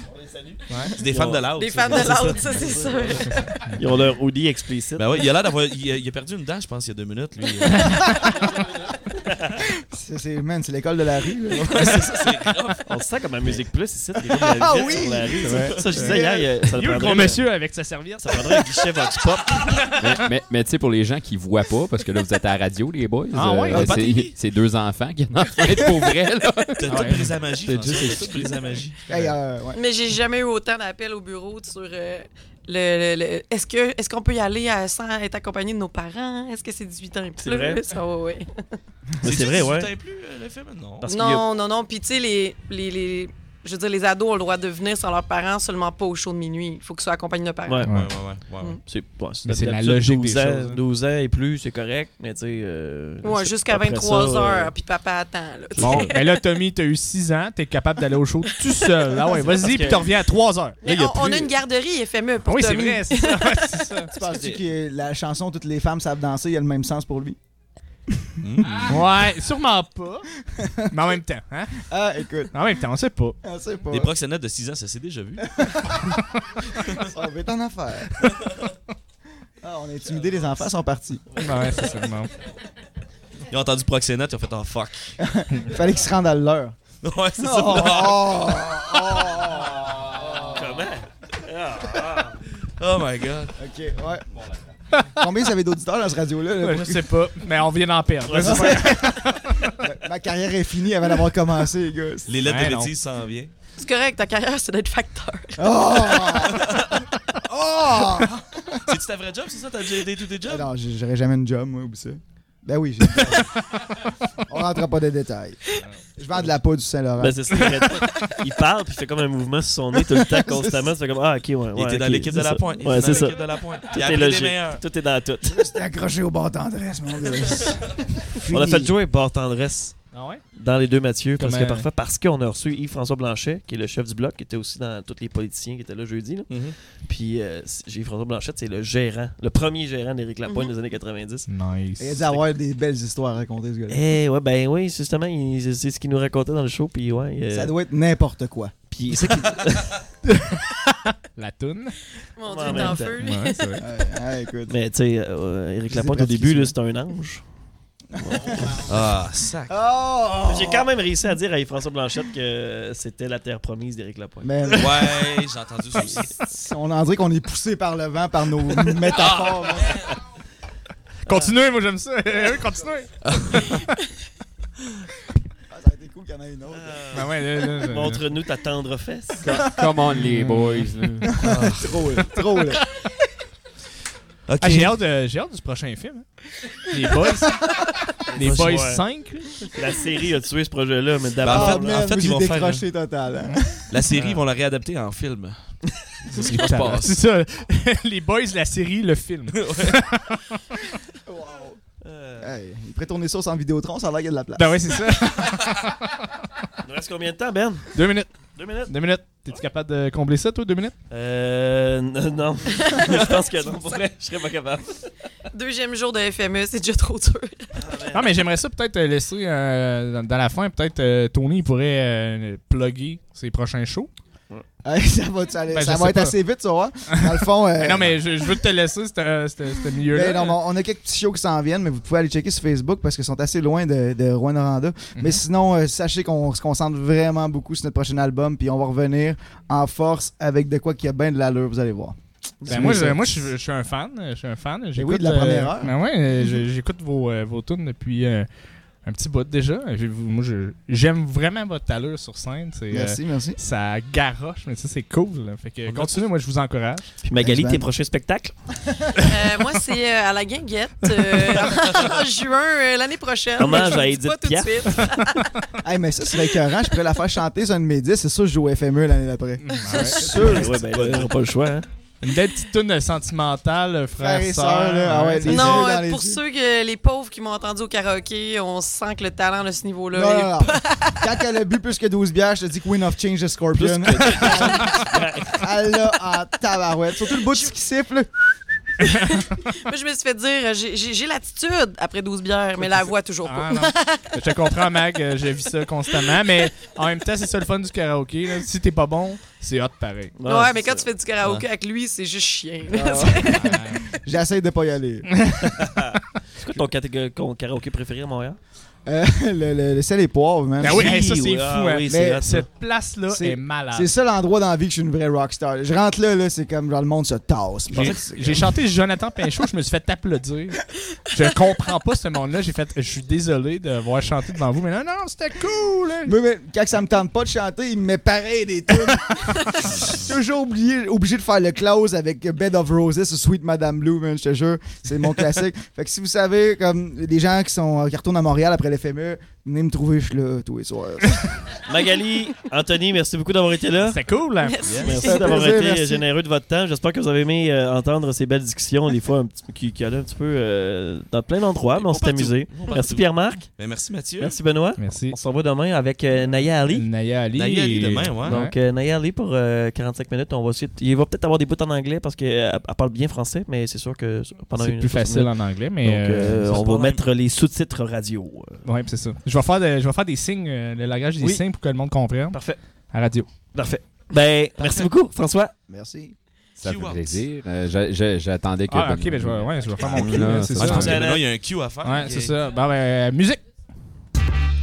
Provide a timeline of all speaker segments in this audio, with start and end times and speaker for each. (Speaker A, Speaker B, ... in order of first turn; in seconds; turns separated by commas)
Speaker A: 0.2-5.0, Speaker B: 0.7-0.9, Speaker C: 0.8-3.1, Speaker D: 1.5-3.6, Speaker B: 3.3-3.8, Speaker C: 5.0-8.9, Speaker B: 7.6-8.3, Speaker A: 9.1-9.6, Speaker E: 9.8-12.5, Speaker C: 11.6-12.9, Speaker A: 11.7-12.3, Speaker A: 12.8-17.4, Speaker E: 14.2-16.5, Speaker B: 15.4-16.2, Speaker C: 15.7-16.0, Speaker B: 16.7-18.7, Speaker A: 18.2-19.9, Speaker F: 20.0-27.2, Speaker B: 23.3-24.1, Speaker C: 23.7-24.3, Speaker C: 26.8-29.0, Speaker B: 26.9-27.4, Speaker A: 27.5-28.8, Speaker E: 29.1-29.8, Speaker D: 29.7-38.6, Speaker A: 37.4-37.8, Speaker A: 39.2-39.9, Speaker C: 39.2-41.1, Speaker A: 41.0-41.4, Speaker D: 41.0-47.9, Speaker A: 47.6-47.9, Speaker B: 47.8-48.1, Speaker C: 47.8-48.8, Speaker A: 48.8-54.7, Speaker B: 49.4-50.8, Speaker D: 53.2-56.4, Speaker A: 55.7-56.1, Speaker B: 55.8-61.5, Speaker D: 58.5-59.4, Speaker A: 59.4-60.1, Speaker D: 60.8-64.0, Speaker B: 62.4-64.1, Speaker E: 64.1-67.4, Speaker A: 64.2-64.6, Speaker E: 68.1-68.8, Speaker C: 68.4-69.1, Speaker B: 68.8-70.3, Speaker E: 70.5-70.9, Speaker B: 70.9-71.8, Speaker E: 71.8-72.8, Speaker B: 72.5-73.4, Speaker E: 73.4-74.1, Speaker C: 73.9-76.0, Speaker E: 75.4-76.2, Speaker C: 76.7-77.1, Speaker E: 76.9-78.4, Speaker C: 78.2-78.7, Speaker E: 79.6-81.3, Speaker B: 81.3-82.3, Speaker C: 83.5-85.1, Speaker E: 85.2-86.8, Speaker C: 87.0-90.8, Speaker E: 87.4-90.6, Speaker A: 90.5-92.4, Speaker C: 91.8-93.6, Speaker E: 93.6-94.4, Speaker B: 94.9-95.2, Speaker E: 95.1-97.2, Speaker B: 96.6-99.9, Speaker A: 98.2-99.1, Speaker E: 98.4-102.4, Speaker C: 102.3-103.5, Speaker B: 102.4-102.9, Speaker D: 103.8-105.8, Speaker E: 105.6-106.9, Speaker C: 106.5-106.8, Speaker E: 107.4-109.0, Speaker C: 108.8-110.7, Speaker E: 110.4-113.5, Speaker B: 113.6-114.1, Speaker E: 114.5-117.7, Speaker A: 117.2-125.7, Speaker E: 120.3-120.9, Speaker C: 121.7-124.8, Speaker E: 125.4-128.9, Speaker A: 128.5-141.5, Speaker B: 130.1-130.4, Speaker B: 131.4-131.9, Speaker C: 136.5-136.8, Speaker B: 141.5-142.4, Speaker E: 142.0-144.0, Speaker A: 143.9-147.7, Speaker E: 147.5-148.7, Speaker A: 148.9-150.0, Speaker C: 149.2-150.0, Speaker B: 150.2-152.1, Speaker D: 152.3-153.8, Speaker A: 152.4-153.2, Speaker B: 152.7-153.8, Speaker E: 153.8-154.8, Speaker A: 154.7-157.4, Speaker E: 155.9-156.7, Speaker E: 158.1-160.9, Speaker A: 158.2-158.8, Speaker C: 158.7-159.8, Speaker A: 160.4-164.8, Speaker E: 164.4-165.4, Speaker C: 164.7-166.4, Speaker E: 165.9-170.1, Speaker A: 168.8-169.2, Speaker C: 169.1-170.1, Speaker A: 171.2-171.6, Speaker B: 171.2-173.9, Speaker C: 173.2-173.8, Speaker E: 175.7-177.0, Speaker A: 176.7-179.6, Speaker B: 177.1-178.3, Speaker E: 179.4-180.0, Speaker F: 179.6-181.4, Speaker B: 180.1-181.5, Speaker E: 181.2-182.8, Speaker C: 181.4-182.2, Speaker C: 184.5-185.0, Speaker B: 184.6-189.7, Speaker A: 188.3-189.0, Speaker A: 189.7-192.0, Speaker C: 191.4-192.8, Speaker E: 191.4-193.9, Speaker C: 193.9-197.2, Speaker B: 194.1-194.4, Speaker B: 196.4-200.9, Speaker C: 199.6-199.9, Speaker E: 201.2-201.8, Speaker A: 202.0-202.5, Speaker E: 202.4-205.0, Speaker B: 204.6-206.2, Speaker A: 206.8-208.0, Speaker B: 207.9-210.9, Speaker A: 208.5-208.9, Speaker A: 211.1-215.1, Speaker D: 215.5-217.7, Speaker A: 217.7-218.4, Speaker B: 218.1-224.1, Speaker E: 224.8-228.6, Speaker B: 225.7-226.3, Speaker B: 227.1-230.6, Speaker E: 230.1-243.5, Speaker B: 235.2-235.4, Speaker A: 242.6-243.2, Speaker B: 242.7-248.5, Speaker E: 244.9-245.9, Speaker B: 249.0-257.1, Speaker E: 252.9-253.6, Speaker A: 257.2-258.5, Speaker E: 257.4-257.9, Speaker D: 259.2-265.5, Speaker B: 261.2-261.6, Speaker C: 261.8-262.2, Speaker A: 263.6-265.4, Speaker E: 265.8-270.8, Speaker B: 269.6-270.3, Speaker A: 270.1-271.9, Speaker C: 270.4-271.3, Speaker B: 272.2-275.9, Speaker E: 274.2-276.4, Speaker D: 275.4-281.3, Speaker E: 280.1-288.5, Speaker A: 283.7-285.7, Speaker D: 287.3-287.7, Speaker D: 289.0-294.4, Speaker B: 293.4-300.4, Speaker A: 300.4-301.1, Speaker D: 300.4-304.1, Speaker E: 302.9-305.4, Speaker B: 303.5-304.0, Speaker B: 305.3-306.2, Speaker A: 305.8-308.6, Speaker E: 309.1-311.2, Speaker B: 310.8-314.1, Speaker A: 310.8-312.7, Speaker E: 312.1-312.4, Speaker E: 313.2-318.8, Speaker B: 317.9-326.3, Speaker E: 326.2-341.7, Speaker A: 341.8-344.2, Speaker B: 344.0-344.9, Speaker D: 344.6-345.6, Speaker C: 344.8-345.2, Speaker A: 345.0-353.7, Speaker E: 345.1-346.2, Speaker C: 351.9-354.6, Speaker A: 354.4-357.1, Speaker B: 355.0-355.4, Speaker B: 356.9-358.7, Speaker C: 357.5-358.6, Speaker A: 358.4-368.8, Speaker B: 364.7-366.7, Speaker C: 366.6-367.2, Speaker B: 368.8-373.5, Speaker A: 371.4-371.6, Speaker A: 372.5-372.8, Speaker A: 373.7-375.7, Speaker C: 374.8-375.1, Speaker E: 375.9-376.3, Speaker F: 376.8-381.3, Speaker C: 376.8-377.4, Speaker B: 378.9-381.3, Speaker C: 380.0-382.6, Speaker A: 380.1-381.5, Speaker B: 382.0-383.6